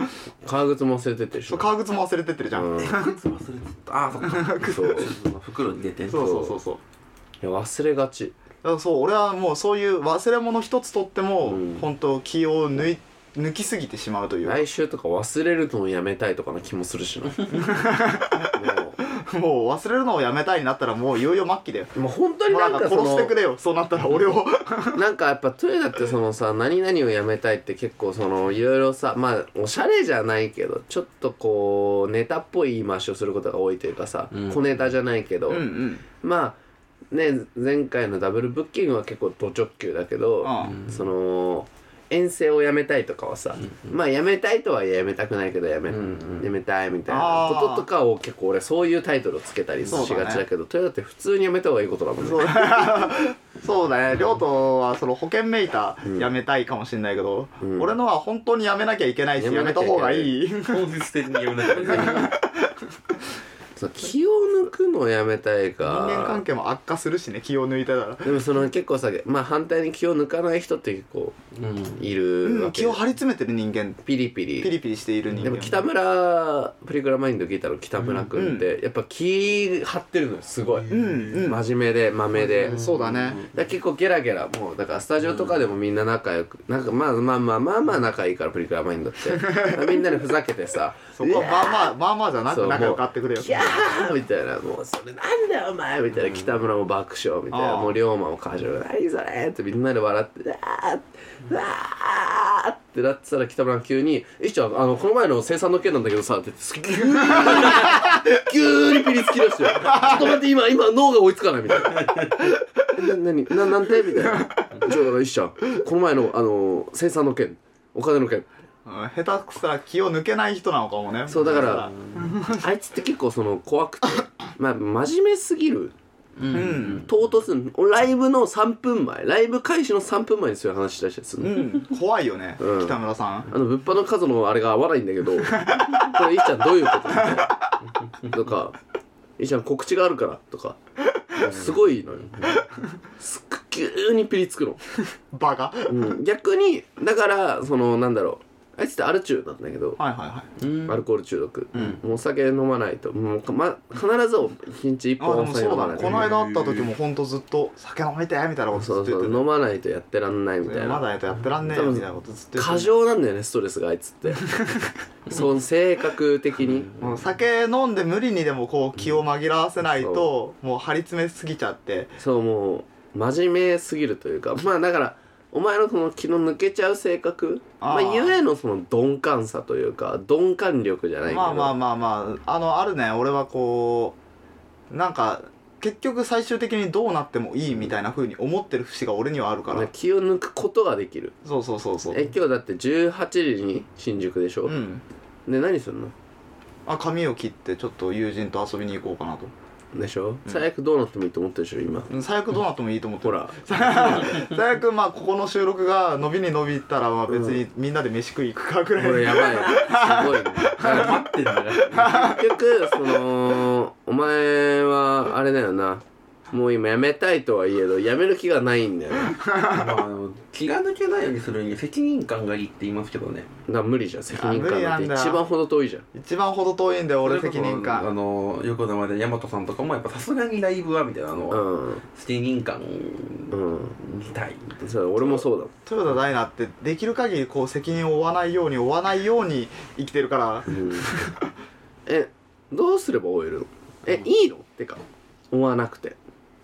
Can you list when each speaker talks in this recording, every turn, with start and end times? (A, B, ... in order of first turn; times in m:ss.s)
0:00.4-0:01.7 A
0:01.5-0:03.2 B
0:02.5-0:03.0 A
0:02.8-0:06.3 C
0:04.2-0:05.0 B
0:04.6-0:05.1 A
0:06.1-0:06.8 B
0:06.1-0:06.6 A
0:07.4-0:08.4 A
0:08.6-0:14.6 B
0:11.4-0:11.8 A
0:14.4-0:17.8 A
0:17.5-0:21.9 B
0:18.5-0:19.0 A
0:21.9-0:23.3 A
0:22.5-0:25.0 B
0:24.9-0:36.6 A
0:34.3-0:34.6 C
0:35.5-0:36.0 B
0:37.1-0:52.9 A
0:40.4-0:40.8 B
0:40.6-0:41.0 C
0:45.9-0:46.4 C
0:47.1-0:47.9 B
0:49.8-0:50.4 B
0:52.2-1:00.8 B
0:57.6-0:58.0 A
0:59.4-1:00.3 A
1:00.7-1:02.3 C
1:01.7-1:02.3 A
1:01.7-1:02.9 B
1:03.8-1:06.4 A
1:05.8-1:08.4 B
1:08.2-1:11.4 A
1:11.5-1:12.0 C
1:12.0-1:13.0 A
1:12.4-1:14.0 B
1:14.0-1:14.7 A
1:14.6-1:15.8 B
1:15.3-1:15.6 C
1:15.4-1:22.8 A
1:18.0-1:18.3 C
1:18.3-1:18.7 B
1:20.8-1:21.5 C
1:20.9-1:21.6 B
1:22.4-1:23.6 C
1:22.6-1:23.4 B
1:23.5-1:31.9 A
1:25.3-1:25.6 C
1:29.3-1:30.0 B
1:31.2-1:34.0 B
1:32.5-1:52.3 A
1:37.5-1:38.0 B
1:49.8-1:50.3 B
1:51.8-1:52.3 C
1:52.9-1:58.5 A
1:58.8-2:02.6 B
2:01.3-2:05.9 A
2:06.4-2:07.1 B
2:06.4-2:07.1 C
2:07.0-2:11.8 A
2:11.4-2:13.5 B
2:12.6-2:17.5 A
2:15.5-2:16.1 B
2:17.1-2:17.5 B
2:18.2-2:18.8 A
2:19.4-2:20.8 A
2:21.3-2:22.6 A
2:22.5-2:22.8 B
2:23.2-2:24.8 A
2:25.3-2:26.2 B
2:25.9-2:30.0 A
2:30.0-2:30.5 B
2:30.6-2:31.0 C
2:30.8-2:36.3 A
2:35.2-2:39.4 B
2:36.0-2:36.9 C
2:38.7-2:41.1 A
2:40.6-2:42.9 B
2:41.7-2:44.4 A
2:44.5-2:44.9 B
2:45.3-2:46.9 A
2:46.6-2:47.2 C
2:47.0-2:52.1 B
2:50.0-2:50.3 A
2:52.2-3:01.7 A
2:57.8-2:58.4 B
3:01.3-3:04.2 B
3:04.9-3:09.9 B
3:09.7-3:11.3 A
3:11.4-3:12.3 B
3:12.1-3:14.8 A
3:14.7-3:15.0 B
3:15.4-3:16.1 A
3:16.8-3:19.5 B
3:19.9-3:22.1 A
3:22.1-3:32.4 B
3:23.2-3:24.3 A
3:29.0-3:31.2 A
3:30.8-3:32.4 C
3:32.0-3:39.4 A
3:39.4-3:39.8 B
3:39.7-3:43.5 C
3:43.7-3:46.0 A
3:44.3-3:45.4 B
3:46.1-3:48.1 B
3:47.2-3:55.4 C
3:51.5-3:52.0 A
3:53.5-3:54.0 A
3:54.8-3:55.7 A
3:55.8-4:01.5 B
4:00.7-4:01.1 A
4:02.0-4:06.2 A